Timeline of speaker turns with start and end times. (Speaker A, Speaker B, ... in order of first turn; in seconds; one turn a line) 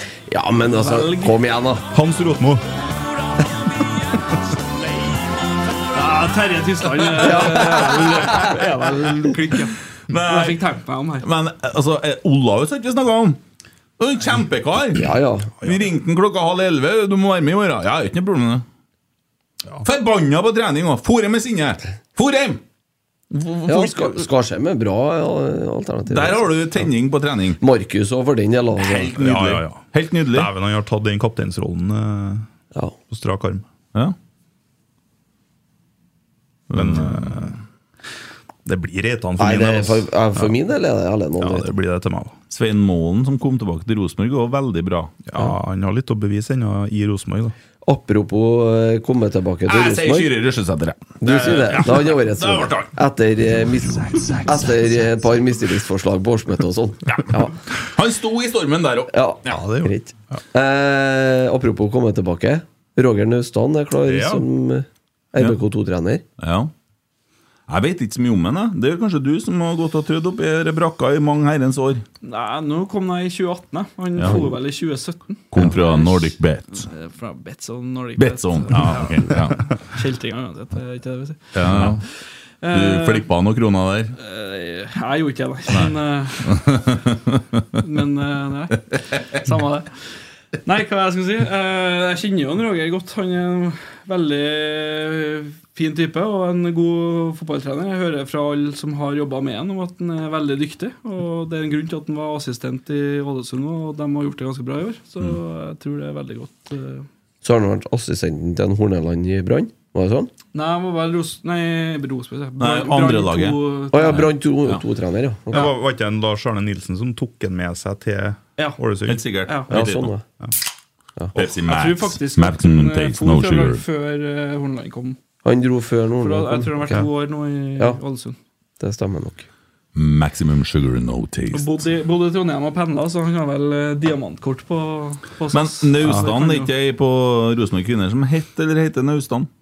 Speaker A: 0.3-1.9
Speaker B: 0.7-1.4
Speaker C: 1.9-2.6
Speaker B: 5.9-11.3
Speaker A: 7.2-8.7
Speaker D: 10.1-10.6
Speaker D: 11.2-13.4
Speaker D: 14.0-18.6
Speaker A: 14.9-15.5
Speaker D: 19.8-22.6
Speaker D: 23.3-24.3
Speaker A: 23.7-26.9
Speaker D: 26.1-27.6
Speaker A: 27.6-29.2
Speaker D: 28.8-30.5
Speaker C: 29.1-32.5
Speaker C: 33.1-33.6
Speaker D: 36.7-37.4
Speaker C: 36.7-37.6
Speaker C: 38.7-40.5
Speaker A: 39.4-41.7
Speaker C: 41.4-42.4
Speaker D: 42.5-45.2
Speaker C: 45.3-47.5
Speaker A: 47.9-50.3
Speaker D: 49.7-52.9
Speaker A: 51.2-57.5
Speaker D: 53.9-54.6
Speaker D: 57.1-59.6
Speaker A: 59.1-66.2
Speaker C: 59.5-60.4
Speaker C: 64.1-64.5
Speaker D: 66.4-66.7
Speaker D: 67.7-72.0
Speaker B: 72.2-82.0
Speaker D: 74.2-74.4
Speaker D: 75.5-76.9
Speaker D: 78.2-79.7
Speaker D: 81.5-82.0
Speaker B: 82.6-83.3
Speaker D: 82.7-84.2
Speaker B: 84.2-86.8
Speaker D: 85.7-87.8
Speaker B: 87.8-89.9
Speaker B: 90.6-107.1
Speaker A: 107.4-110.3
Speaker B: 110.5-114.3
Speaker D: 112.6-114.8
Speaker A: 113.9-115.7
Speaker C: 115.5-119.2
Speaker D: 119.1-120.1
Speaker B: 119.5-119.7
Speaker A: 119.7-120.2
Speaker D: 121.3-123.8
Speaker B: 121.7-125.2
Speaker A: 125.4-127.1
Speaker B: 126.2-128.4
Speaker A: 128.8-129.5
Speaker D: 129.9-131.8
Speaker B: 131.5-136.7
Speaker D: 135.5-139.5
Speaker C: 136.0-136.3